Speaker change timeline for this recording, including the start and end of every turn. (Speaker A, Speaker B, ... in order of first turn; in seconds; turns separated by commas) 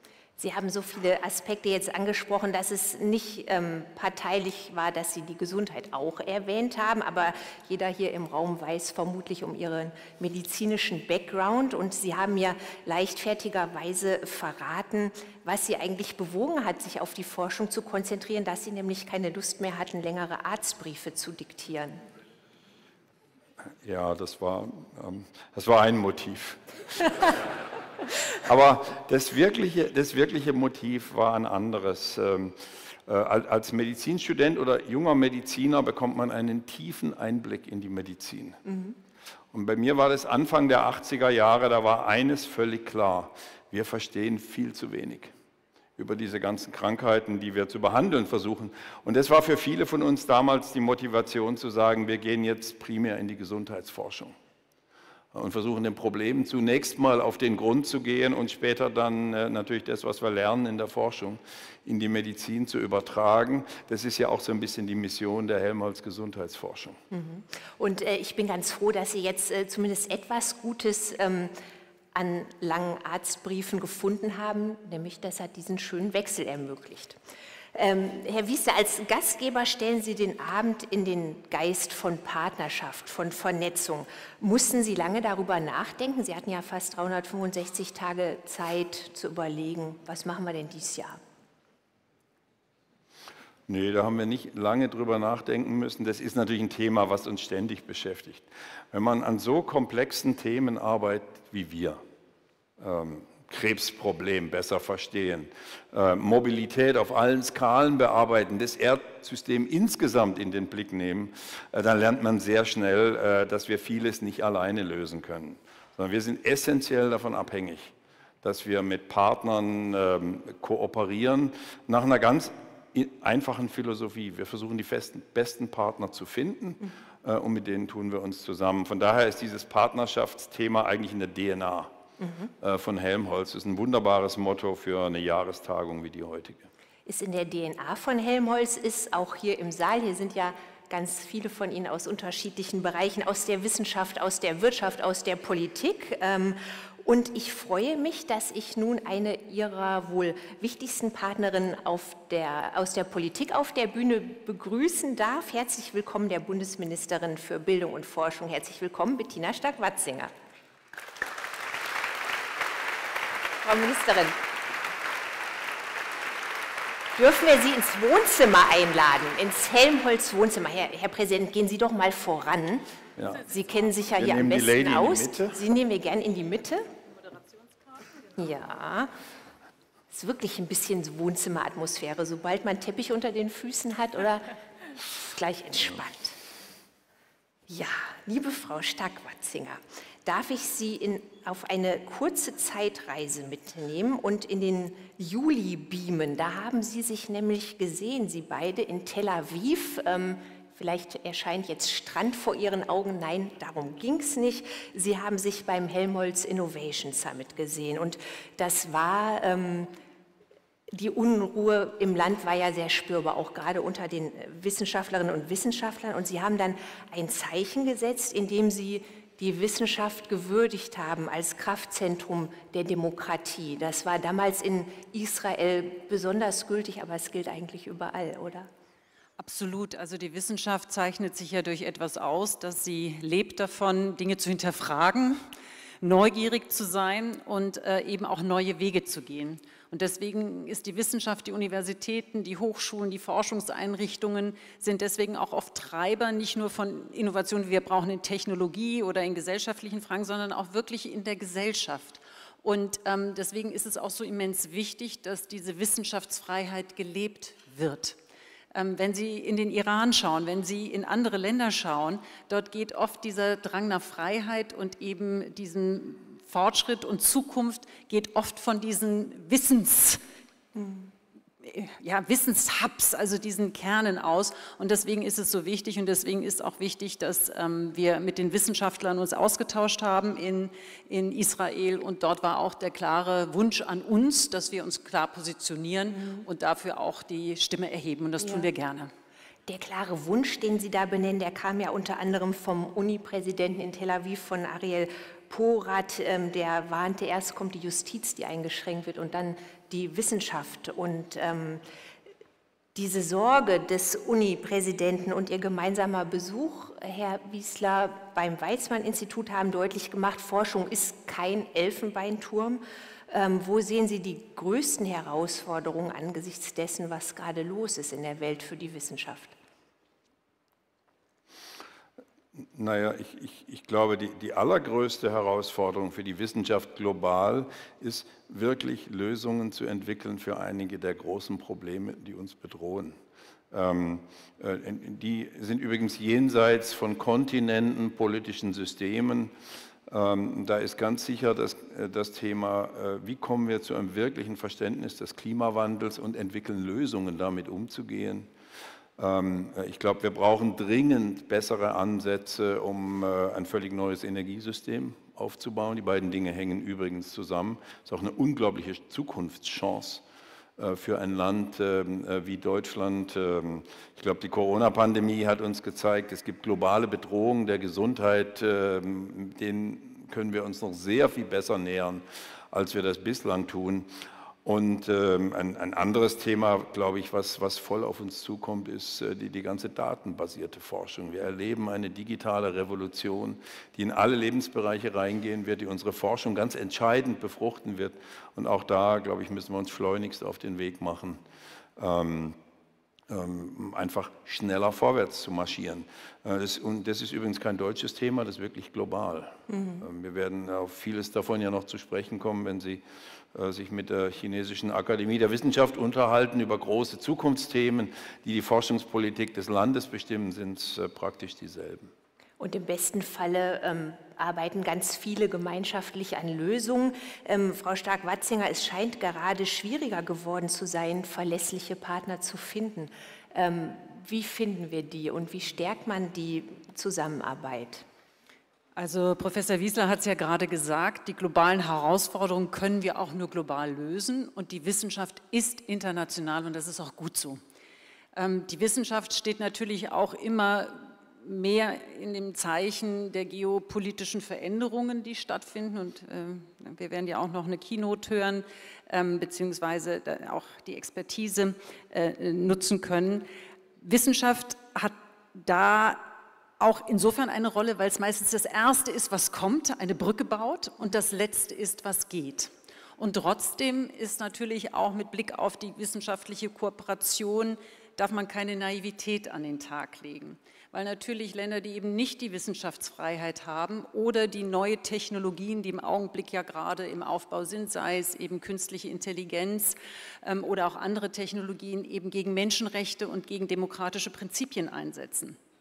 Speaker A: 0.4-22.0, Speaker B: 23.8-27.3, Speaker B: 28.4-38.6, Speaker A: 38.7-38.9, Speaker B: 39.5-45.3, Speaker B: 46.0-54.3, Speaker B: 55.3-67.0, Speaker A: 67.1-71.5, Speaker A: 72.1-77.2, Speaker A: 77.8-91.2, Speaker B: 93.7-102.0, Speaker B: 102.8-131.9, Speaker A: 132.2-132.5, Speaker B: 132.6-136.7, Speaker A: 137.1-160.3, Speaker A: 163.6-164.4, Speaker A: 167.2-172.9, Speaker B: 173.2-173.4, Speaker A: 173.5-176.8, Speaker B: 174.2-175.6, Speaker A: 178.3-179.1, Speaker A: 180.1-184.5, Speaker A: 185.2-186.4, Speaker A: 187.7-209.9, Speaker A: 210.9-228.7, Speaker C: 229.4-235.5, Speaker C: 236.0-258.2, Speaker C: 258.7-270.2, Speaker A: 270.8-271.1, Speaker C: 271.6-289.1, Speaker A: 286.1-286.4, Speaker A: 288.4-288.7, Speaker A: 289.7-301.8, Speaker A: 302.9-319.6, Speaker B: 322.7-333.2, Speaker B: 333.7-339.5, Speaker B: 340.1-348.5, Speaker B: 349.2-360.2, Speaker B: 360.8-374.1, Speaker B: 374.6-391.4, Speaker B: 392.0-392.6, Speaker B: 393.3-403.0, Speaker A: 399.7-400.0, Speaker B: 403.5-412.1, Speaker A: 412.6-428.1, Speaker C: 429.0-437.6, Speaker C: 438.4-453.5, Speaker C: 454.0-485.6